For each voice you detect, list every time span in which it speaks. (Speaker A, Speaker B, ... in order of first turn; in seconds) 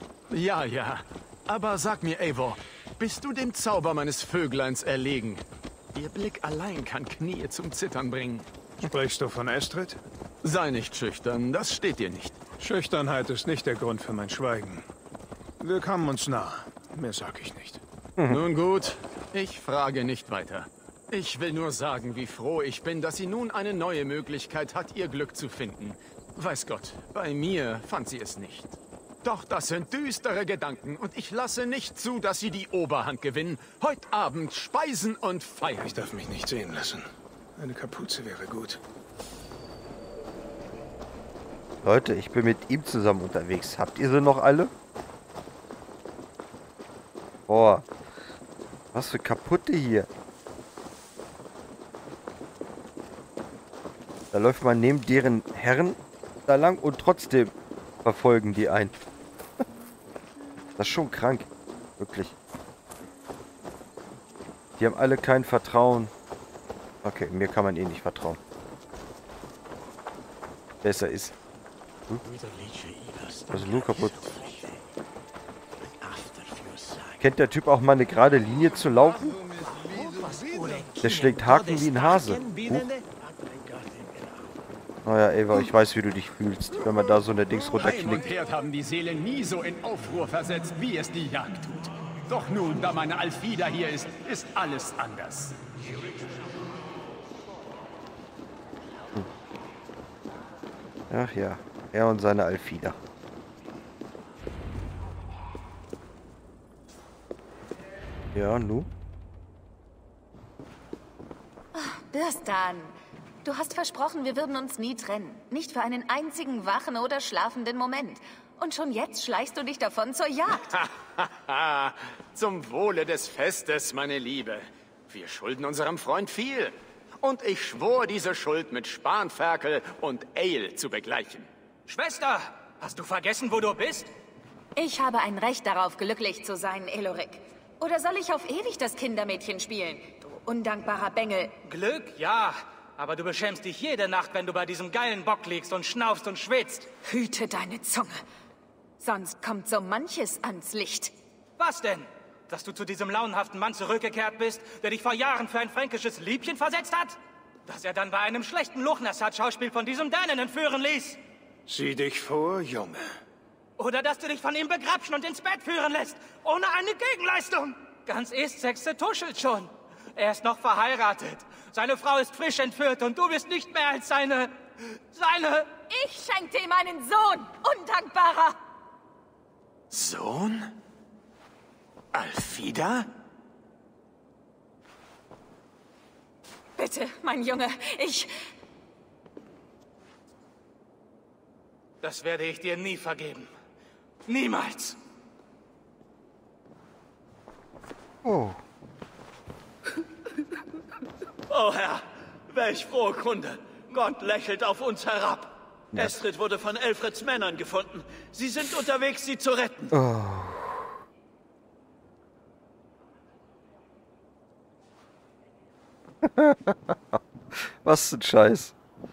Speaker A: 0.3-8.5, 10.4-12.4, 18.3-36.0, 87.8-95.6, 120.7-131.5, 179.9-180.8, 182.1-183.1
Speaker B: 8.8-10.0, 12.6-14.8, 15.6-17.8, 35.8-38.8, 161.7-163.0
Speaker C: 18.2-18.4, 41.8-44.7, 47.5-47.9, 48.9-50.1, 54.3-59.0, 60.8-62.4, 64.8-66.1, 67.0-68.4, 70.8-71.3, 73.5-74.3, 77.2-79.4, 81.0-82.9, 85.0-88.3, 101.1-103.0, 108.3-108.9, 198.2-198.6, 205.9-206.2, 209.9-210.9, 216.2-218.7
Speaker D: 72.3-74.6, 76.0-77.2, 80.0-81.1, 82.4-83.0, 201.5-210.0
Speaker E: 111.7-120.7, 134.8-141.6, 147.0-148.2, 149.0-151.1, 175.9-178.6, 186.8-188.4
Speaker F: 131.9-134.1, 141.7-146.9, 151.6-161.2, 163.8-174.6, 175.1-175.8, 192.0-193.5, 194.3-195.0